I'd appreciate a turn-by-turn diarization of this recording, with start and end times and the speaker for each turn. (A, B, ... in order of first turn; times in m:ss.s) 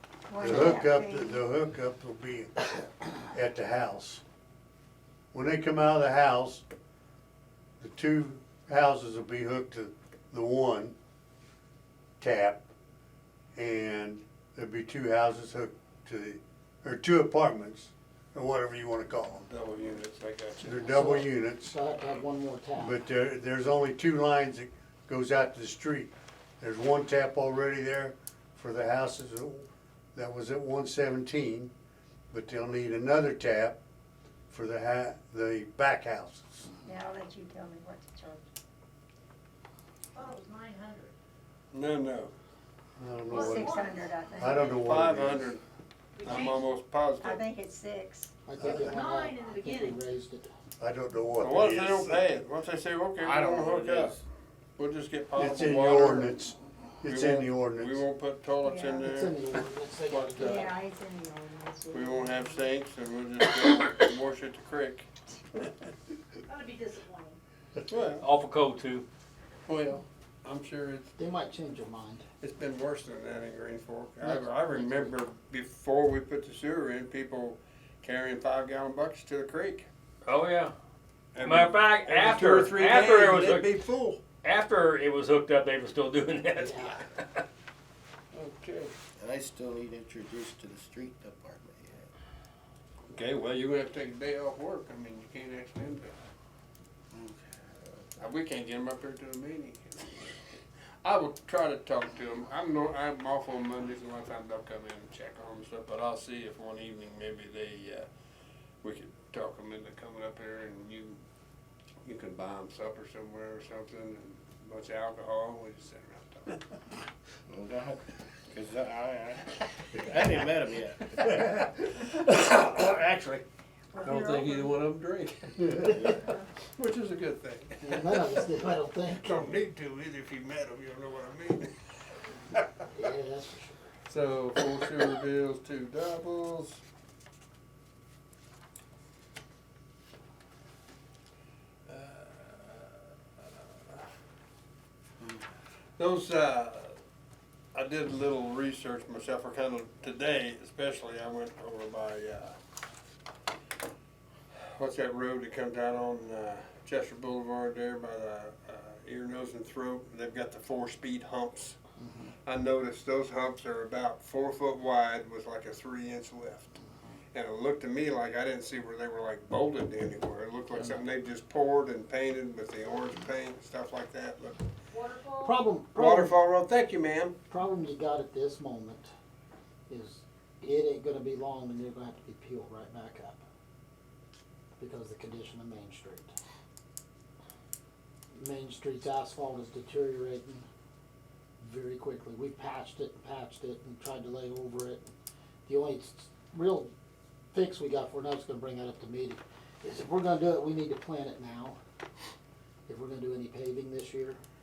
0:00.3-0:01.4 A
0:00.4-0:04.2 B
0:05.3-0:06.6 B
0:07.8-0:11.0 B
0:12.2-0:12.6 B
0:13.5-0:19.4 B
0:19.4-0:20.9 C
0:20.6-0:21.8 B
0:20.8-0:23.0 D
0:22.8-0:31.7 B
0:32.3-0:33.8 B
0:34.5-0:36.7 B
0:36.8-0:38.5 A
0:40.1-0:41.1 E
0:41.7-0:42.3 C
0:43.0-0:45.5 B
0:43.3-0:44.7 A
0:43.3-0:45.0 E
0:44.8-0:45.6 C
0:46.2-0:46.6 E
0:46.2-0:47.4 C
0:47.2-0:48.3 A
0:48.4-0:50.5 D
0:48.6-0:48.8 B
0:48.6-0:50.0 E
0:50.8-0:52.2 B
0:51.4-0:54.1 C
0:53.6-0:54.0 F
0:54.8-0:56.4 C
0:55.4-0:58.0 B
0:57.0-1:00.7 C
0:58.6-0:59.1 A
0:59.0-1:00.7 D
1:00.4-1:02.6 A
1:01.9-1:05.1 C
1:06.5-1:07.4 E
1:07.9-1:08.3 C
1:08.0-1:09.0 G
1:09.6-1:11.1 C
1:11.2-1:12.2 D
1:12.4-1:19.9 C
1:14.2-1:15.1 D
1:20.2-1:20.7 G
1:21.4-1:24.2 C
1:21.4-1:23.7 G
1:24.4-1:27.2 G
1:26.6-1:27.0 D
1:28.3-1:28.9 C
1:29.2-1:32.1 F
1:33.1-1:36.1 C
1:37.1-1:37.7 F
1:38.2-1:40.4 C
1:41.0-1:48.1 C
1:48.8-1:51.2 C
1:52.0-1:56.6 C
1:57.5-2:01.3 F
2:01.2-2:03.4 C
2:03.9-2:04.8 A
2:04.0-2:08.5 C
2:05.8-2:06.3 F
2:07.8-2:09.4 D
2:09.2-2:11.7 C
2:12.9-2:13.9 D
2:14.0-2:16.8 C
2:21.9-2:24.0 C
2:26.0-2:27.0 C
2:27.7-2:32.6 C
2:34.5-2:41.8 C
2:42.0-2:42.3 D
2:42.4-2:46.7 C
2:47.3-2:54.7 C
2:50.7-2:51.1 D
2:54.9-2:55.6 E
2:55.4-2:56.3 D
2:55.9-2:57.4 C
2:57.5-2:59.1 D
2:59.9-3:03.4 D
3:04.8-3:06.3 D
3:08.4-3:10.7 D
3:11.6-3:15.1 D
3:15.6-3:16.9 D
3:17.5-3:21.8 D
3:22.9-3:24.4 D